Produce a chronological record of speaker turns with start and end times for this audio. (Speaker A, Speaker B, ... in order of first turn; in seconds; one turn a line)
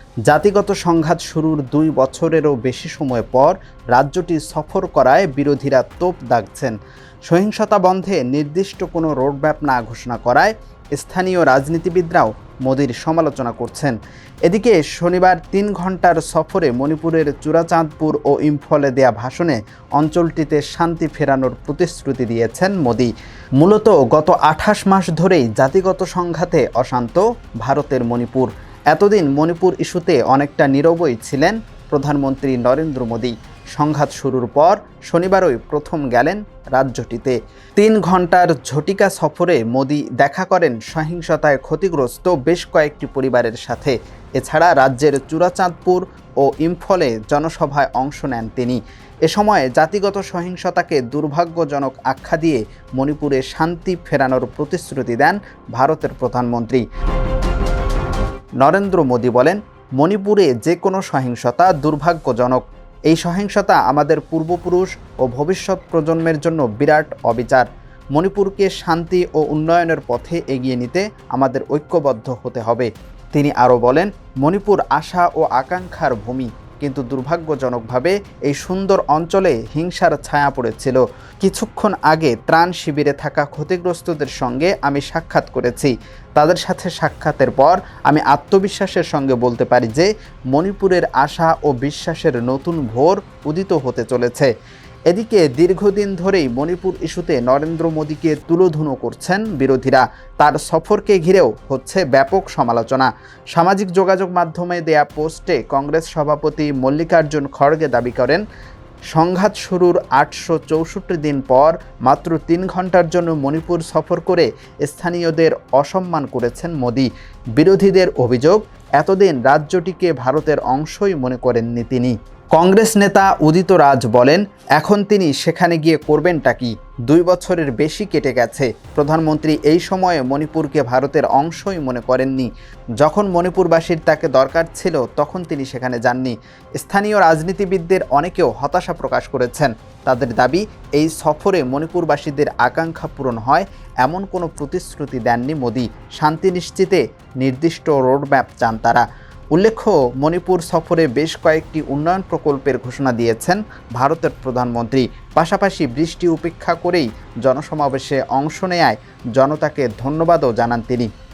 Speaker A: 0.3-6.7
Speaker A: 7.3-13.9
Speaker A: 14.4-56.8
Speaker A: 58.6-94.5
Speaker A: 95.1-108.4
Speaker A: 109.1-161.1